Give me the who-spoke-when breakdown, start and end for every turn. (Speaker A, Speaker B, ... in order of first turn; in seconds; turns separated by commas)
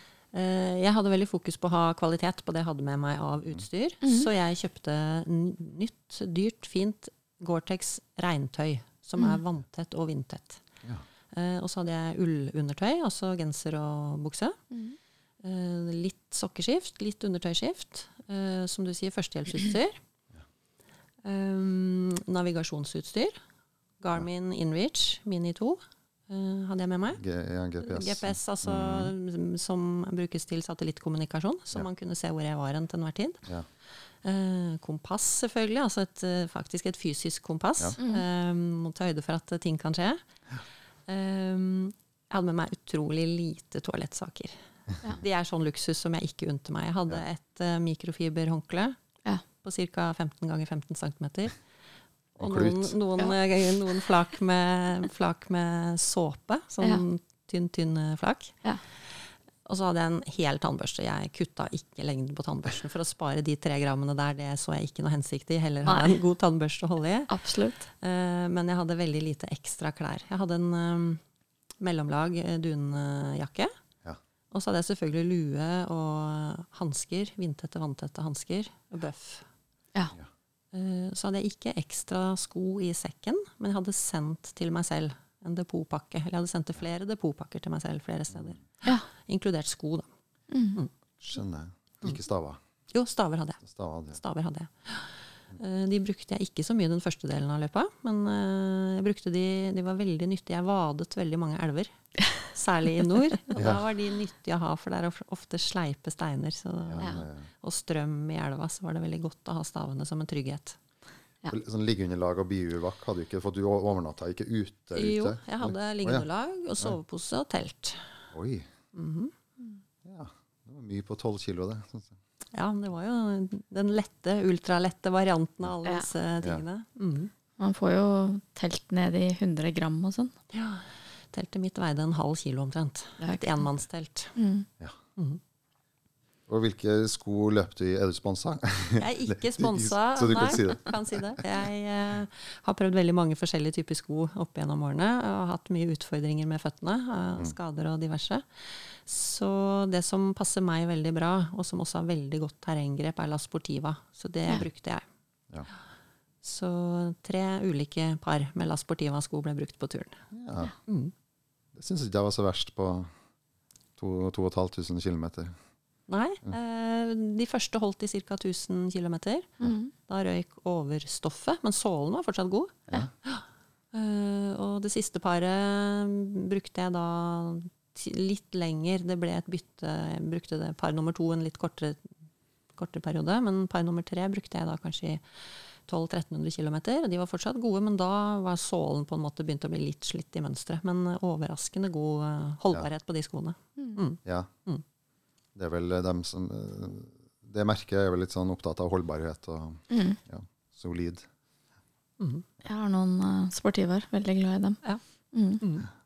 Speaker A: 0.3-10.6, Speaker A: 11.3-14.6, Speaker A: 15.4-20.0, Speaker A: 21.2-23.3, Speaker A: 24.0-27.2, Speaker B: 27.1-29.1, Speaker A: 27.8-33.4, Speaker A: 34.2-40.2, Speaker C: 38.0-38.2, Speaker A: 41.1-44.5, Speaker A: 45.1-49.0, Speaker A: 49.6-51.6, Speaker B: 52.4-53.0, Speaker A: 52.4-58.5, Speaker A: 59.1-67.3, Speaker C: 65.8-66.2, Speaker C: 67.3-67.8, Speaker A: 68.0-71.2, Speaker A: 71.8-73.7, Speaker A: 74.5-79.5, Speaker A: 80.7-90.1, Speaker C: 90.5-90.8, Speaker B: 91.2-92.6, Speaker A: 92.9-110.8, Speaker B: 93.7-94.2, Speaker B: 103.5-103.8, Speaker B: 106.8-107.5, Speaker B: 111.5-116.2, Speaker A: 114.9-118.1, Speaker B: 118.3-118.7, Speaker A: 118.9-119.3, Speaker B: 120.0-122.1, Speaker A: 122.5-127.3, Speaker C: 127.6-130.3, Speaker A: 130.5-134.3, Speaker C: 134.3-134.7, Speaker B: 136.5-141.0, Speaker A: 139.0-155.0, Speaker A: 156.4-160.2, Speaker B: 160.3-160.7, Speaker A: 160.9-161.1, Speaker B: 161.7-163.1, Speaker B: 164.0-165.5, Speaker A: 166.1-182.0, Speaker C: 169.6-169.9, Speaker A: 182.8-194.8, Speaker B: 194.2-194.5, Speaker B: 195.5-201.3, Speaker C: 199.9-200.2, Speaker C: 202.6-205.6, Speaker A: 205.6-205.9